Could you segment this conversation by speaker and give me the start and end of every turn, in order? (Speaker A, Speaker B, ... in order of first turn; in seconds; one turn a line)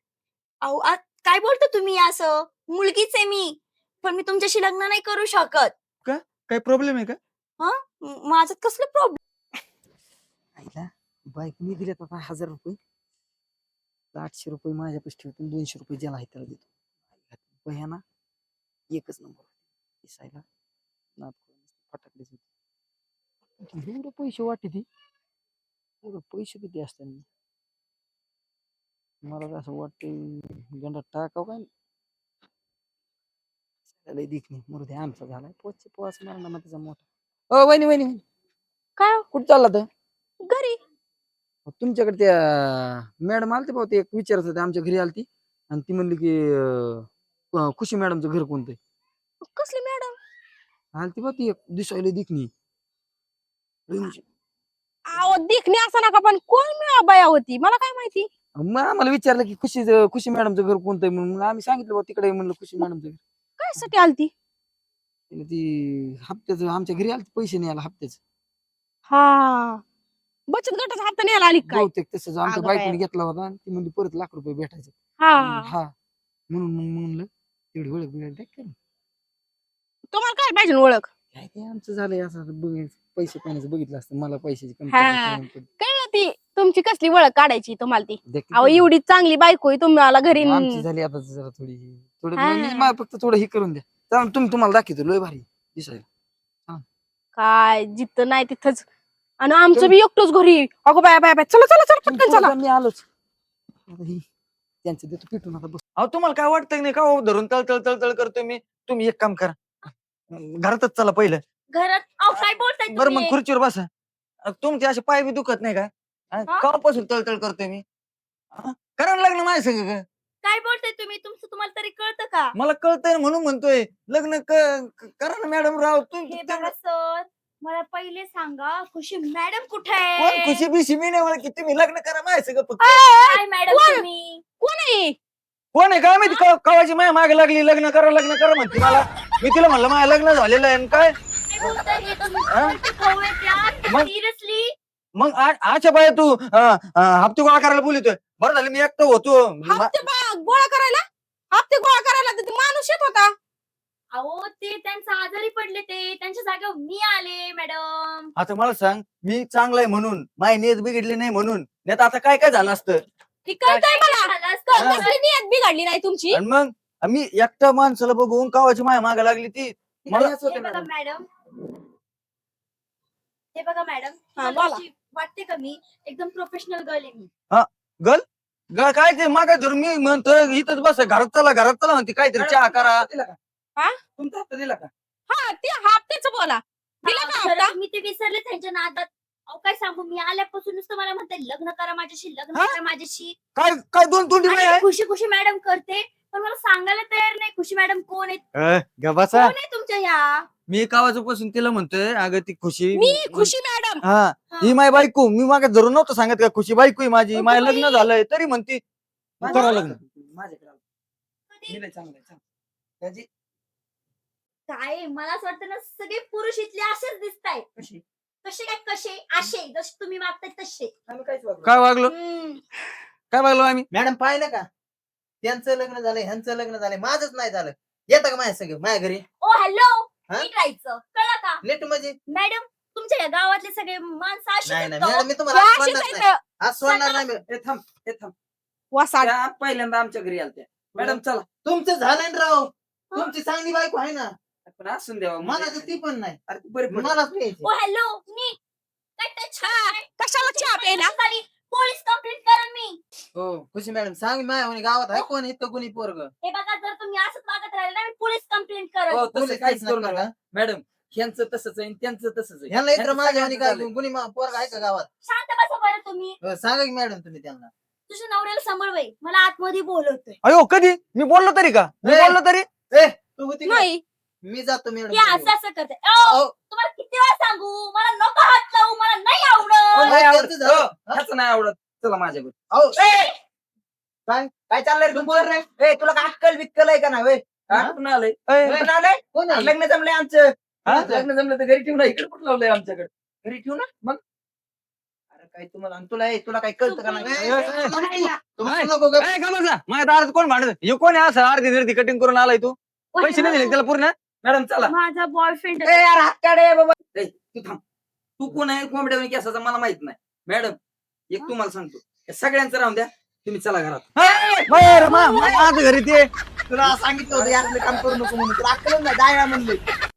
Speaker A: 0.6-5.7
Speaker B: 6.0-7.2
Speaker A: 7.6-9.2
Speaker C: 10.6-12.8
Speaker C: 14.1-16.7
Speaker C: 17.3-18.0
Speaker C: 18.9-19.5
Speaker C: 20.0-20.4
Speaker C: 21.2-22.4
Speaker C: 23.6-24.9
Speaker C: 26.0-27.2
Speaker C: 29.2-31.7
Speaker C: 34.0-38.2
Speaker D: 39.0-39.2
Speaker C: 39.3-39.9
Speaker D: 40.4-40.8
Speaker C: 41.7-48.8
Speaker D: 49.4-50.2
Speaker C: 51.0-52.5
Speaker C: 53.9-54.2
Speaker D: 55.1-58.3
Speaker C: 58.6-63.2
Speaker D: 63.6-64.3
Speaker C: 65.3-68.2
Speaker D: 69.1-69.8
Speaker D: 70.5-71.9
Speaker C: 71.6-75.9
Speaker D: 72.4-73.0
Speaker D: 75.2-75.7
Speaker C: 76.5-78.7
Speaker D: 80.1-81.1
Speaker C: 81.3-85.7
Speaker D: 84.9-90.8
Speaker C: 88.3-88.9
Speaker C: 90.3-96.0
Speaker D: 92.4-93.0
Speaker D: 97.4-98.8
Speaker D: 99.4-102.5
Speaker C: 102.0-103.0
Speaker C: 103.9-104.2
Speaker C: 104.8-105.8
Speaker B: 106.0-109.6
Speaker B: 110.3-111.4
Speaker A: 111.7-113.4
Speaker B: 112.9-113.9
Speaker B: 114.5-117.8
Speaker B: 118.5-120.0
Speaker A: 120.4-122.5
Speaker B: 122.6-126.7
Speaker A: 126.3-130.6
Speaker B: 130.2-133.0
Speaker D: 132.8-134.1
Speaker A: 133.2-134.4
Speaker D: 134.6-135.2
Speaker B: 135.7-141.1
Speaker A: 141.5-144.7
Speaker B: 145.2-150.0
Speaker D: 149.6-151.0
Speaker D: 151.5-153.3
Speaker A: 154.1-158.3
Speaker B: 158.4-163.0
Speaker A: 163.5-165.1
Speaker D: 163.6-166.4
Speaker B: 166.3-170.3
Speaker C: 170.1-170.9
Speaker A: 170.4-171.3
Speaker A: 173.6-177.3
Speaker D: 174.4-174.8
Speaker B: 177.5-178.2
Speaker B: 178.7-183.1
Speaker C: 182.3-183.4
Speaker C: 184.2-184.9
Speaker D: 185.3-187.8
Speaker A: 187.0-193.4
Speaker B: 193.6-194.8
Speaker A: 194.4-198.4
Speaker B: 198.6-199.5
Speaker A: 199.3-200.5
Speaker B: 200.7-208.8
Speaker D: 202.9-204.0
Speaker A: 204.5-204.8
Speaker A: 207.3-208.1
Speaker C: 209.4-210.8
Speaker B: 209.5-210.0
Speaker A: 211.5-211.8
Speaker C: 211.7-212.4
Speaker C: 213.0-213.3
Speaker A: 214.7-217.7
Speaker C: 217.8-218.0
Speaker A: 218.4-220.9
Speaker C: 221.1-221.8
Speaker B: 221.7-222.1
Speaker A: 222.1-222.6
Speaker B: 223.3-223.9
Speaker E: 223.9-224.7
Speaker E: 225.4-229.2
Speaker A: 229.4-231.6
Speaker E: 231.6-232.2
Speaker A: 232.3-235.3
Speaker E: 234.7-237.4
Speaker D: 235.5-236.4
Speaker A: 236.8-237.2
Speaker C: 237.5-238.3
Speaker D: 238.9-239.3
Speaker C: 239.2-241.4
Speaker E: 240.9-244.3
Speaker C: 244.7-247.2
Speaker E: 245.4-246.4
Speaker E: 246.9-247.7
Speaker A: 247.6-248.6
Speaker A: 249.2-253.0
Speaker D: 249.6-251.2
Speaker E: 253.6-256.3
Speaker A: 256.4-259.3
Speaker C: 259.1-263.9
Speaker E: 259.3-260.3
Speaker E: 262.7-265.1
Speaker A: 265.2-266.4
Speaker E: 266.4-267.7
Speaker A: 268.1-270.4
Speaker B: 270.4-272.7
Speaker E: 272.0-272.4
Speaker E: 272.9-273.9
Speaker D: 273.6-274.0
Speaker E: 274.4-275.5
Speaker A: 275.1-280.2
Speaker E: 276.2-276.5
Speaker C: 279.9-282.5
Speaker E: 280.0-281.2
Speaker E: 282.7-283.0
Speaker A: 283.0-283.4
Speaker E: 284.3-287.9
Speaker C: 287.7-288.4
Speaker B: 288.5-288.9
Speaker E: 288.6-289.8
Speaker C: 289.5-294.2
Speaker E: 290.9-291.3
Speaker E: 295.3-299.3
Speaker A: 296.8-297.8
Speaker B: 297.3-298.0
Speaker B: 298.6-304.1
Speaker A: 303.2-303.8
Speaker C: 304.4-304.9
Speaker A: 304.8-306.1
Speaker C: 305.8-307.8
Speaker C: 308.4-310.8
Speaker C: 311.3-314.1
Speaker B: 314.2-316.3
Speaker A: 314.2-315.7
Speaker E: 316.7-318.5
Speaker C: 316.8-319.8